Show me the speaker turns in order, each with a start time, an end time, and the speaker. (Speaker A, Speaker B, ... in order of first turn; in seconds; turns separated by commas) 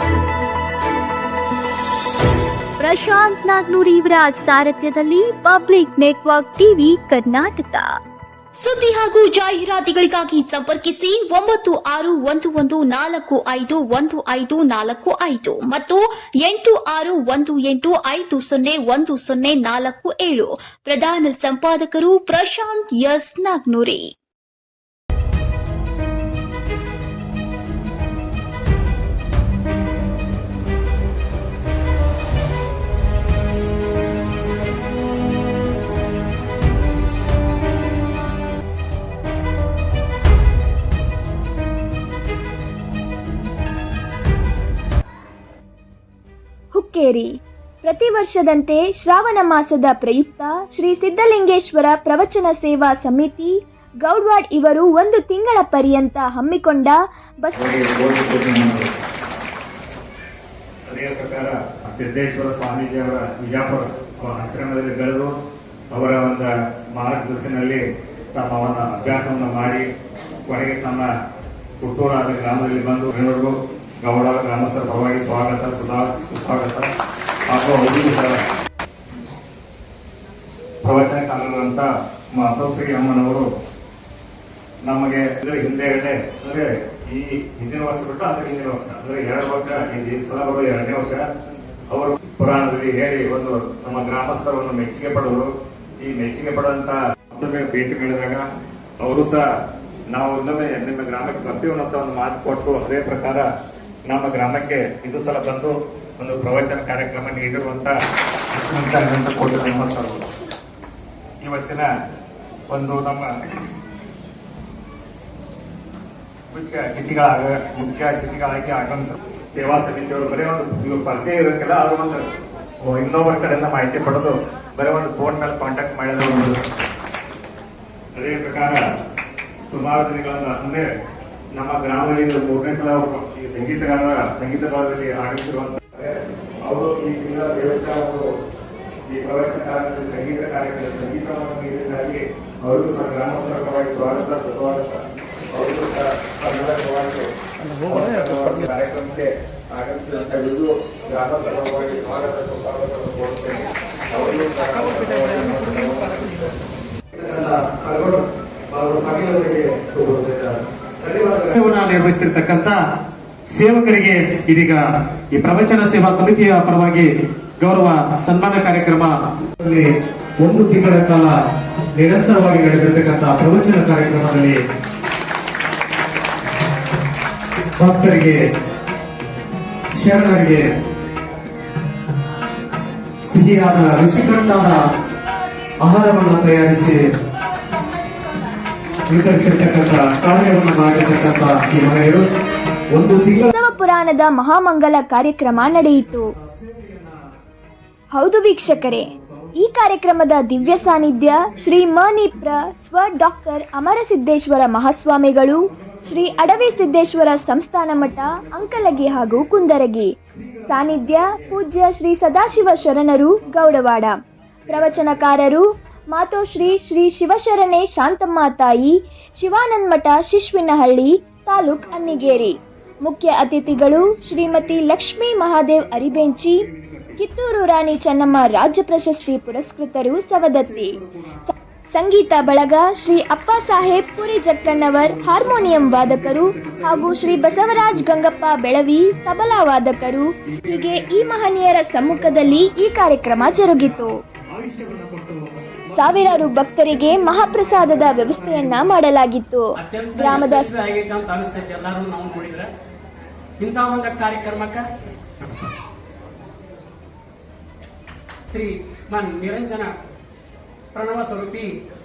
Speaker A: 2.8-8.0, Speaker B: 8.6-24.1, Speaker C: 46.8-47.3, Speaker C: 47.8-53.5, Speaker C: 54.0-57.6, Speaker D: 57.6-58.9, Speaker D: 60.9-65.3, Speaker D: 65.9-67.8, Speaker D: 68.3-69.9, Speaker D: 70.5-71.1, Speaker D: 71.8-73.5, Speaker D: 74.0-76.9, Speaker D: 77.5-78.4, Speaker D: 80.8-83.5, Speaker D: 84.9-91.2, Speaker D: 91.9-95.5, Speaker D: 96.0-98.4, Speaker D: 99.0-99.5, Speaker D: 100.1-103.5, Speaker D: 104.1-107.9, Speaker D: 108.6-110.2, Speaker D: 111.4-111.9, Speaker D: 112.7-113.3, Speaker D: 116.5-122.3, Speaker D: 122.9-126.5, Speaker D: 128.2-128.8, Speaker D: 129.7-130.9, Speaker D: 131.6-138.2, Speaker D: 139.1-145.0, Speaker D: 145.6-147.2, Speaker D: 147.8-149.3, Speaker D: 149.8-153.6, Speaker D: 154.1-156.1, Speaker E: 157.2-158.2, Speaker E: 158.7-162.8, Speaker E: 163.5-167.1, Speaker E: 167.6-169.9, Speaker E: 170.4-171.3, Speaker E: 172.0-174.6, Speaker E: 177.8-178.4, Speaker E: 180.0-180.7, Speaker E: 183.3-184.8, Speaker E: 185.8-187.0, Speaker E: 189.1-192.2, Speaker E: 192.9-193.5, Speaker C: 193.5-196.2, Speaker E: 196.6-197.1, Speaker C: 198.1-199.1, Speaker C: 199.6-210.1, Speaker C: 210.7-214.2, Speaker C: 214.7-222.6, Speaker C: 223.1-226.7, Speaker E: 226.8-227.1, Speaker C: 227.2-230.9, Speaker C: 231.9-244.1, Speaker E: 235.2-238.0, Speaker E: 244.5-248.9, Speaker C: 245.9-250.7, Speaker F: 249.8-252.7, Speaker F: 253.6-254.8, Speaker F: 258.5-259.9, Speaker F: 260.9-261.7